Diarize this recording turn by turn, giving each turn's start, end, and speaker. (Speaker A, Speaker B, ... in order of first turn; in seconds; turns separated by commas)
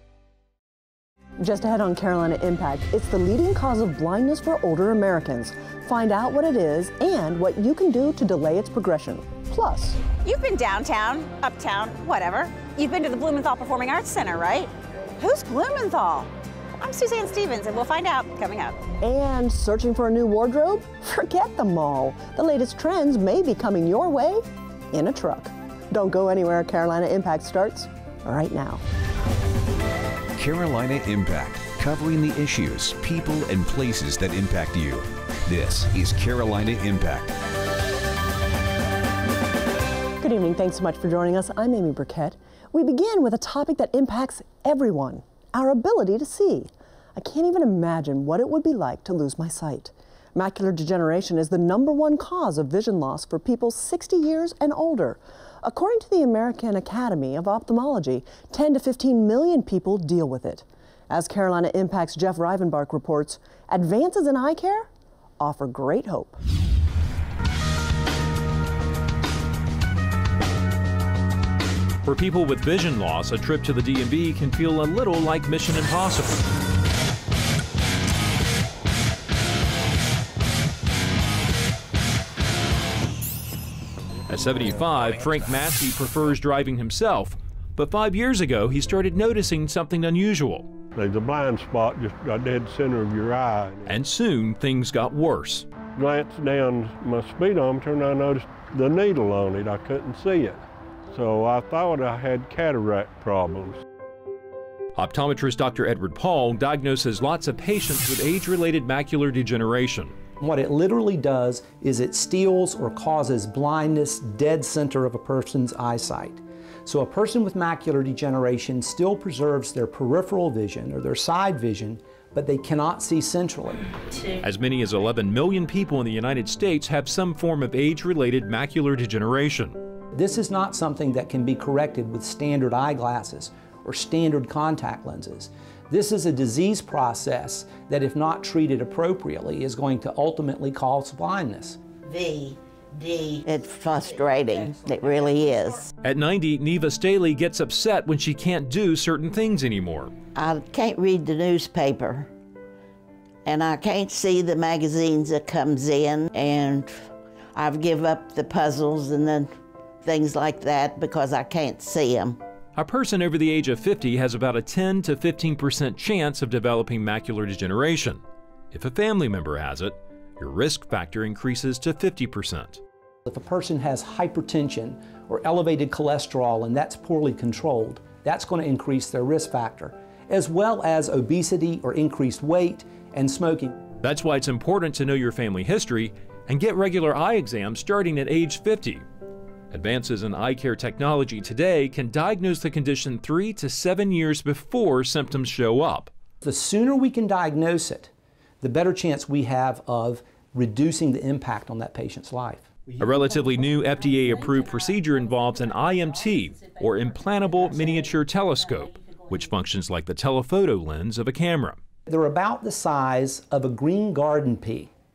Speaker A: 1.4-10.0, Speaker B: 10.1-18.8, Speaker A: 19.0-28.8, Speaker C: 30.4-37.3, Speaker A: 40.2-64.9, Speaker A: 65.4-66.4, Speaker D: 72.0-76.4, Speaker D: 84.3-90.7, Speaker E: 90.9-93.9, Speaker D: 93.9-95.7, Speaker E: 96.0-103.8, Speaker D: 105.0-110.2, Speaker F: 110.4-123.9, Speaker D: 124.4-129.8, Speaker F: 130.1-141.8, Speaker G: 142.1-145.9, Speaker D: 146.0-150.1, Speaker G: 150.3-152.3, Speaker G: 153.4-162.4, Speaker D: 162.8-168.2, Speaker D: 168.7-172.8, Speaker F: 173.3-183.8, Speaker D: 184.0-189.1, Speaker D: 189.7-196.1, Speaker F: 196.4-198.1, Speaker F: 198.6-202.9, Speaker D: 203.0-211.8, Speaker F: 212.1-214.9